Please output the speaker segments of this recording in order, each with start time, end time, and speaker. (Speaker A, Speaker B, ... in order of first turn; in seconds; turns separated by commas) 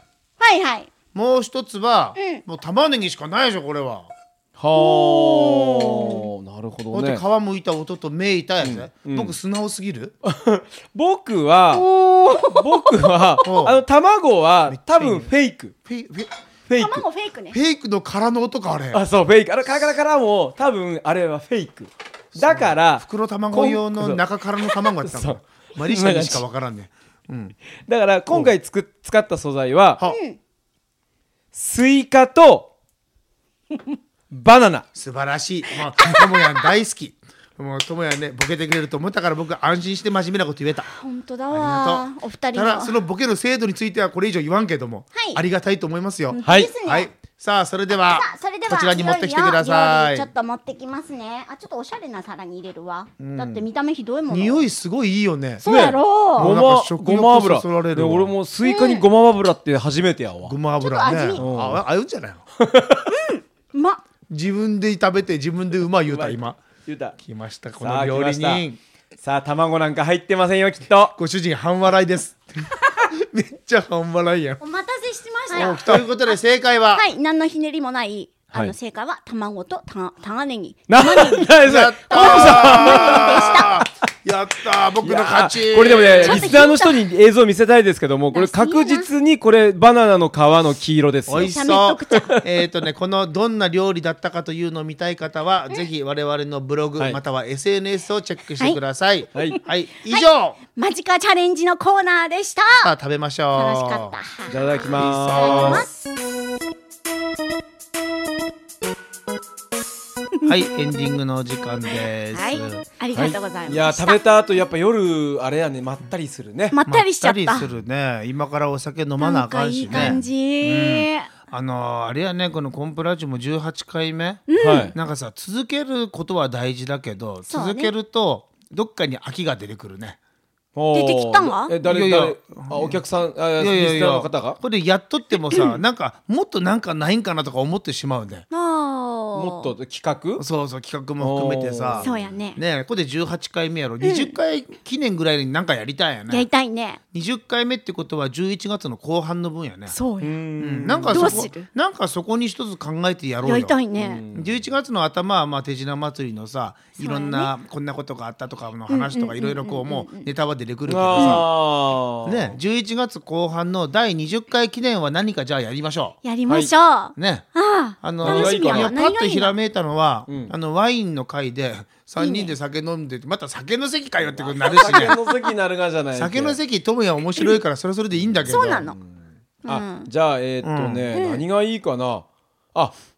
Speaker A: 0.4-0.9, Speaker B: 1.1-4.1, Speaker A: 2.2-2.4, Speaker C: 4.6-7.2, Speaker A: 4.8-6.2, Speaker B: 6.9-10.1, Speaker C: 8.6-9.3, Speaker C: 10.2-11.9, Speaker A: 11.7-13.4, Speaker C: 12.5-15.8, Speaker B: 13.4-13.8, Speaker B: 14.7-15.3, Speaker B: 15.8-16.3, Speaker C: 16.7-17.0, Speaker A: 16.8-17.6, Speaker B: 17.5-19.0, Speaker C: 18.9-24.2, Speaker B: 22.4-27.6, Speaker C: 25.0-26.4, Speaker C: 27.9-30.0, Speaker A: 30.0-30.4, Speaker C: 31.5-32.7, Speaker C: 34.3-34.9, Speaker B: 35.0-40.9, Speaker A: 35.8-36.7, Speaker A: 40.9-43.0, Speaker B: 41.5-50.3, Speaker A: 45.1-45.4, Speaker A: 46.3-47.1, Speaker C: 46.4-46.7, Speaker A: 48.0-54.7, Speaker B: 53.2-53.7, Speaker B: 54.3-55.7, Speaker A: 55.6-56.5, Speaker C: 55.6-60.6, Speaker B: 56.3-58.4, Speaker A: 58.6-59.1, Speaker B: 60.5-62.4, Speaker A: 60.8-61.5, Speaker C: 61.4-61.8, Speaker C: 62.6-63.1, Speaker A: 63.1-64.0, Speaker B: 64.3-66.6, Speaker C: 66.1-67.2, Speaker B: 67.2-68.8, Speaker C: 67.8-68.6, Speaker C: 69.2-71.2, Speaker B: 71.2-74.6, Speaker A: 74.6-76.1, Speaker B: 75.5-77.1, Speaker A: 76.9-81.5, Speaker C: 80.9-84.1, Speaker B: 81.6-86.6, Speaker A: 82.1-83.8, Speaker C: 85.0-91.6, Speaker A: 85.9-87.1, Speaker A: 88.3-89.1, Speaker B: 91.3-100.6, Speaker A: 91.4-92.4, Speaker C: 92.1-92.4, Speaker A: 99.3-102.9, Speaker B: 102.8-104.2, Speaker A: 103.5-106.0, Speaker C: 104.5-105.9, Speaker B: 104.9-105.9, Speaker B: 110.5-112.8, Speaker A: 112.3-114.3, Speaker C: 113.1-116.8, Speaker A: 116.7-117.7, Speaker B: 116.8-130.2, Speaker A: 119.2-121.3, Speaker C: 119.9-120.2, Speaker A: 124.5-125.0, Speaker C: 124.6-125.0, Speaker A: 127.5-127.9, Speaker C: 130.8-134.6, Speaker A: 130.9-131.7, Speaker B: 131.8-133.1, Speaker B: 133.6-138.5, Speaker A: 138.5-139.7, Speaker C: 139.3-140.4, Speaker B: 140.4-146.5, Speaker C: 141.2-142.3, Speaker A: 142.0-142.6, Speaker A: 144.0-144.3, Speaker A: 146.3-147.0, Speaker B: 147.1-150.0, Speaker A: 149.9-150.4, Speaker C: 150.2-151.5, Speaker B: 150.6-153.8, Speaker A: 151.1-151.7, Speaker A: 153.4-154.2, Speaker C: 154.0-154.7, Speaker B: 154.3-161.5, Speaker A: 157.0-157.5, Speaker A: 158.9-160.3, Speaker C: 160.9-162.6, Speaker A: 161.2-161.4, Speaker B: 162.2-166.2, Speaker A: 166.2-169.5, Speaker C: 166.5-166.7, Speaker B: 167.2-167.5, Speaker B: 168.0-175.2, Speaker C: 168.2-169.0, Speaker C: 170.3-170.5, Speaker A: 172.2-172.5, Speaker C: 174.2-176.6, Speaker A: 174.7-175.3, Speaker B: 176.2-178.9, Speaker C: 178.1-183.0, Speaker A: 178.5-179.0, Speaker A: 179.7-180.1, Speaker B: 180.6-181.1, Speaker A: 181.1-181.4